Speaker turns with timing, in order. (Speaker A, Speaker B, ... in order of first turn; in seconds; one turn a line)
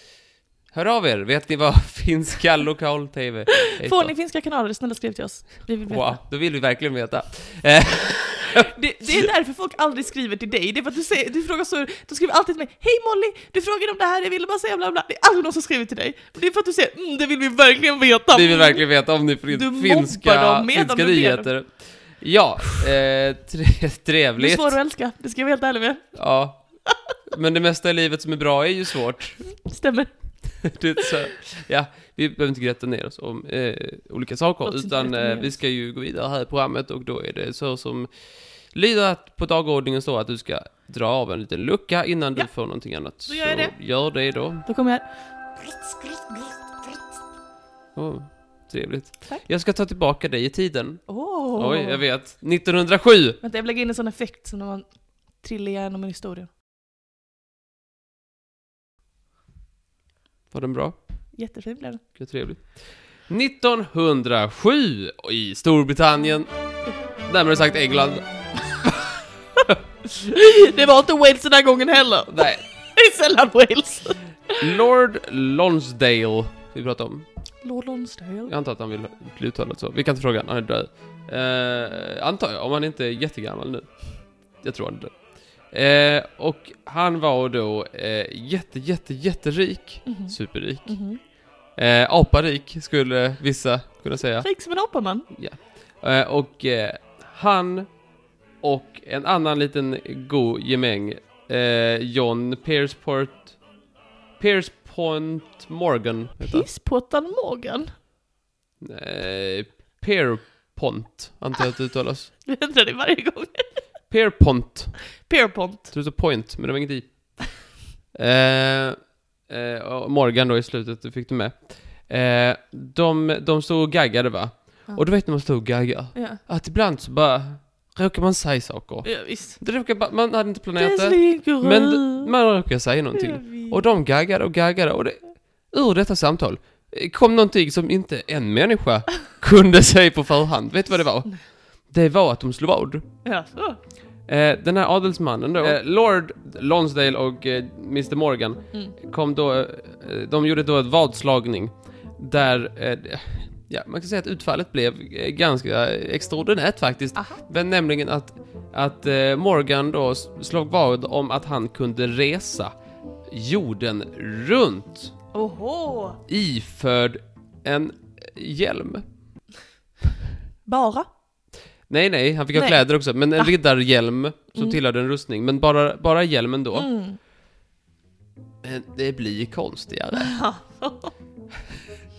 Speaker A: 0.7-4.1
Speaker B: 3.8-6.2
Speaker A: 5.8-8.7
Speaker B: 8.5-18.9
Speaker A: 18.3-24.8
Speaker B: 19.5-21.5
Speaker B: 24.4-26.2
Speaker A: 26.1-26.7
Speaker A: 27.3-29.5
Speaker B: 29.6-30.2
Speaker A: 30.6-38.1
Speaker B: 34.6-35.5
Speaker A: 38.7-44.7
Speaker B: 43.1-43.8
Speaker B: 44.6-47.0
Speaker A: 48.0-53.4
Speaker B: 51.1-52.0
Speaker B: 53.4-56.5
Speaker A: 60.5-61.0
Speaker B: 61.4-62.0
Speaker A: 62.1-66.5
Speaker A: 67.2-69.1
Speaker B: 70.1-74.7
Speaker A: 72.3-72.6
Speaker A: 74.6-77.3
Speaker B: 77.6-78.5
Speaker A: 78.5-98.0
Speaker B: 90.0-91.2
Speaker B: 94.4-95.3
Speaker A: 98.6-103.6
Speaker A: 104.4-106.7
Speaker B: 106.4-107.9
Speaker A: 108.8-112.3
Speaker B: 112.5-113.8
Speaker A: 114.1-115.1
Speaker B: 115.2-115.9
Speaker A: 115.9-117.6
Speaker A: 118.1-143.1
Speaker B: 126.1-126.4
Speaker B: 129.0-129.6
Speaker B: 130.8-132.3
Speaker B: 133.2-133.8
Speaker B: 143.2-143.8
Speaker A: 144.3-162.7
Speaker A: 163.3-165.1
Speaker B: 165.3-166.2
Speaker A: 166.3-169.1
Speaker B: 170.7-171.1
Speaker A: 171.9-176.9
Speaker B: 172.5-172.8
Speaker B: 176.7-177.2
Speaker A: 178.6-180.3
Speaker B: 180.2-181.1